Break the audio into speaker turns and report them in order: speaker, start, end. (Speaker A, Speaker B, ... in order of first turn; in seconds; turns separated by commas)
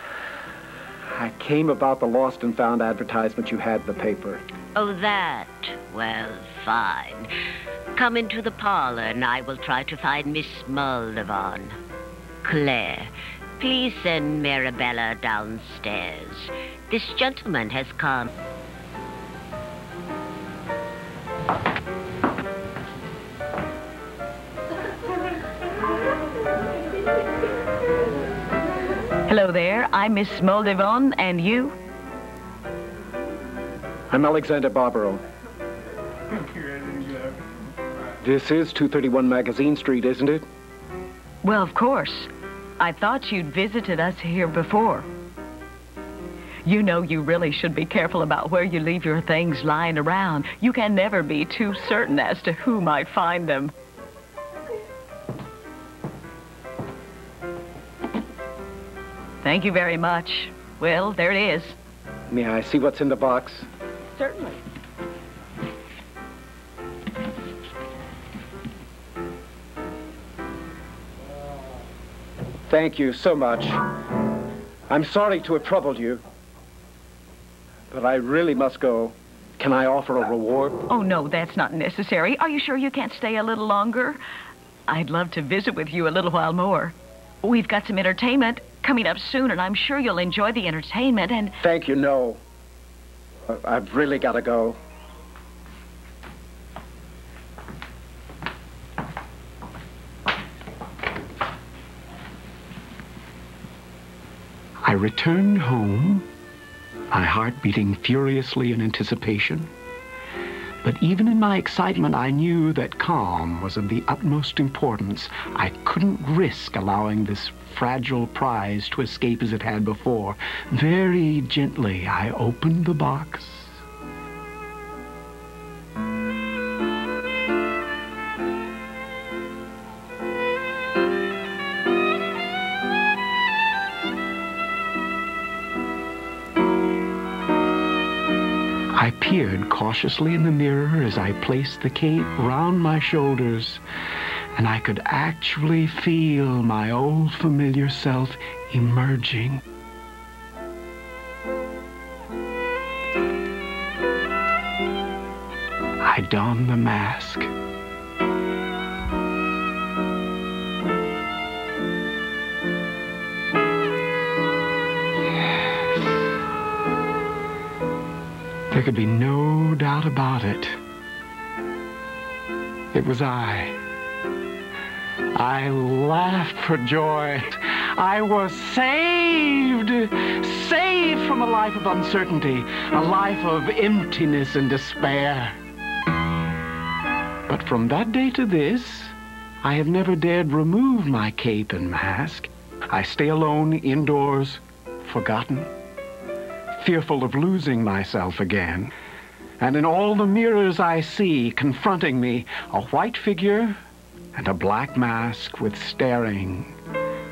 Speaker A: 1.1-4.4, Speaker B: 4.8-7.3, Speaker B: 8.0-11.7, Speaker B: 12.4-18.3, Speaker C: 29.2-31.8, Speaker A: 34.1-35.2, Speaker A: 38.2-40.5, Speaker C: 41.4-45.1, Speaker C: 46.6-53.7, Speaker C: 59.4-61.8, Speaker A: 62.3-63.7, Speaker C: 64.2-64.6, Speaker A: 72.7-73.8, Speaker A: 74.9-76.2, Speaker A: 77.9-80.8, Speaker C: 80.9-84.2, Speaker C: 84.9-91.6, Speaker A: 91.6-92.4, Speaker A: 93.5-94.8, Speaker A: 104.8-106.2, Speaker A: 107.1-109.7, Speaker A: 110.8-123.8, Speaker A: 138.9-143.8, Speaker A: 144.6-149.6, Speaker A: 156.0-157.5, Speaker A: 165.5-166.3, Speaker A: 168.7-170.8, Speaker A: 172.9-173.8, Speaker A: 175.3-185.6, Speaker A: 187.5-195.7, Speaker A: 196.7-198.9, Speaker A: 199.6-203.8, Speaker A: 204.3-206.8